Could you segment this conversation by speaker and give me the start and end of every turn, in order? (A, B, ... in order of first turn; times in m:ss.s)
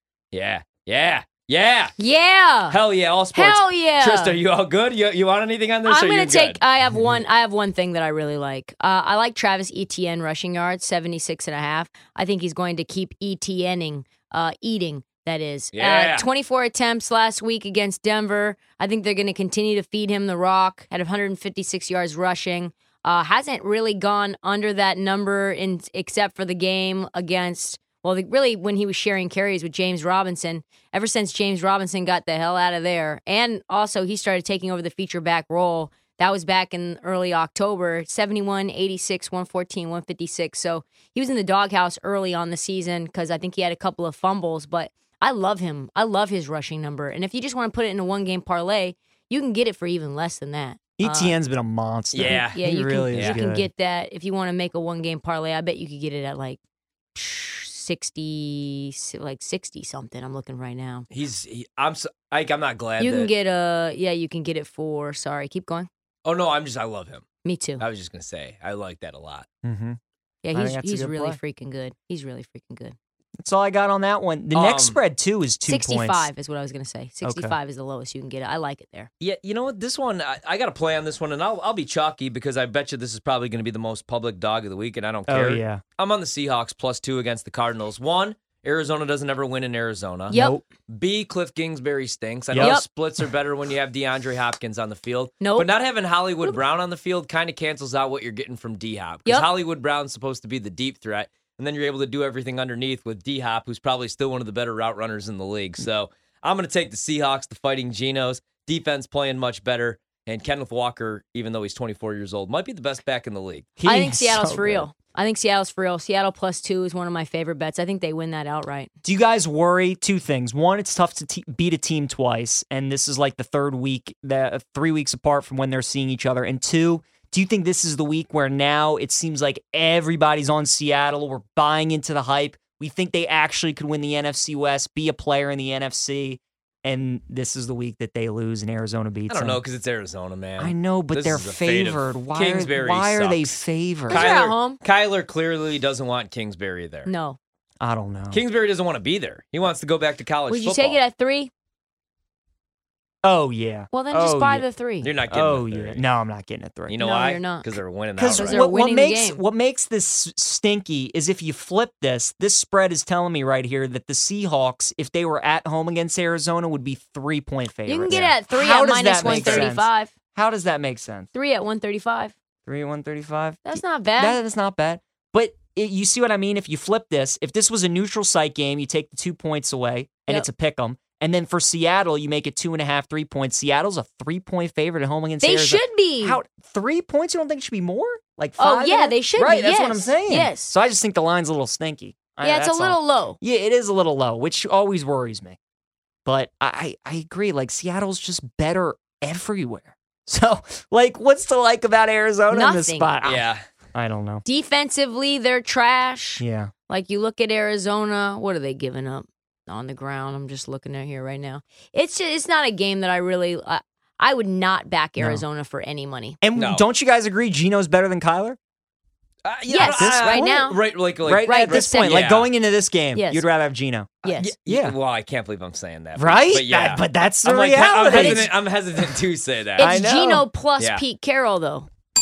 0:00.3-0:01.9 A
0:02.0-0:02.8 B
0:02.7-0:06.6 A
0:03.3-0:04.4 B
0:05.8-0:51.4 B
0:15.7-0:16.2 A
0:51.0-0:53.7 C
0:52.1-0:52.6 A
0:52.3-0:56.6 B
0:53.1-0:53.4 A
0:57.1-1:01.1 B
1:01.1-1:03.3 A
1:03.0-1:05.9 B
1:06.2-1:07.2 A
1:07.4-1:07.8 B
1:07.8-1:09.5 A
1:09.6-1:10.0 C
1:10.4-1:12.9 B
1:10.5-1:11.4 C
1:13.4-1:16.3 C
1:14.5-1:15.0 A
1:15.7-1:19.1 B
1:17.2-1:17.6 C
1:19.2-1:30.4 A
1:25.3-1:25.8 C
1:30.3-1:30.6 B
1:30.3-1:30.6 C
1:30.9-1:53.7 A
1:32.6-1:32.8 B
1:35.4-1:35.7 B
1:53.8-1:54.8 C
1:53.8-1:58.9 B
1:59.0-2:19.6 C
2:19.3-2:27.1 A
2:20.6-2:24.2 C
2:24.1-2:24.8 B
2:27.0-2:27.4 B
2:27.8-2:28.4 C
2:28.3-2:31.0 A
2:30.5-2:31.5 B
2:33.2-2:34.6 C
2:33.9-2:35.1 B
2:35.0-2:36.0 A
2:35.3-2:36.9 C
2:36.9-2:38.6 A
2:37.0-2:37.7 B
2:38.2-2:51.3 C
2:38.3-2:39.4 B
2:47.8-2:50.1 B
2:49.2-2:49.7 A
2:51.3-2:52.3 B
2:52.7-3:15.6 C
2:53.6-2:54.4 B
3:05.4-3:06.4 B
3:08.6-3:10.7 B
3:12.4-3:13.4 B
3:16.2-3:24.4 C
3:22.5-3:23.1 B
3:23.2-3:23.6 A
3:24.4-3:36.4 B
3:26.4-3:26.7 C
3:36.4-3:38.6 C
3:36.6-3:36.8 A
3:39.4-3:42.5 A
3:39.7-3:40.8 B
3:40.0-3:40.6 C
3:41.3-3:44.1 C
3:41.4-3:42.3 B
3:43.1-3:43.5 B
3:44.2-3:44.5 B
3:44.2-3:50.1 A
3:44.7-3:44.9 C
3:46.2-3:48.4 C
3:48.1-3:48.5 B
3:49.8-3:51.9 B
3:49.8-3:50.4 C
3:50.8-3:51.0 A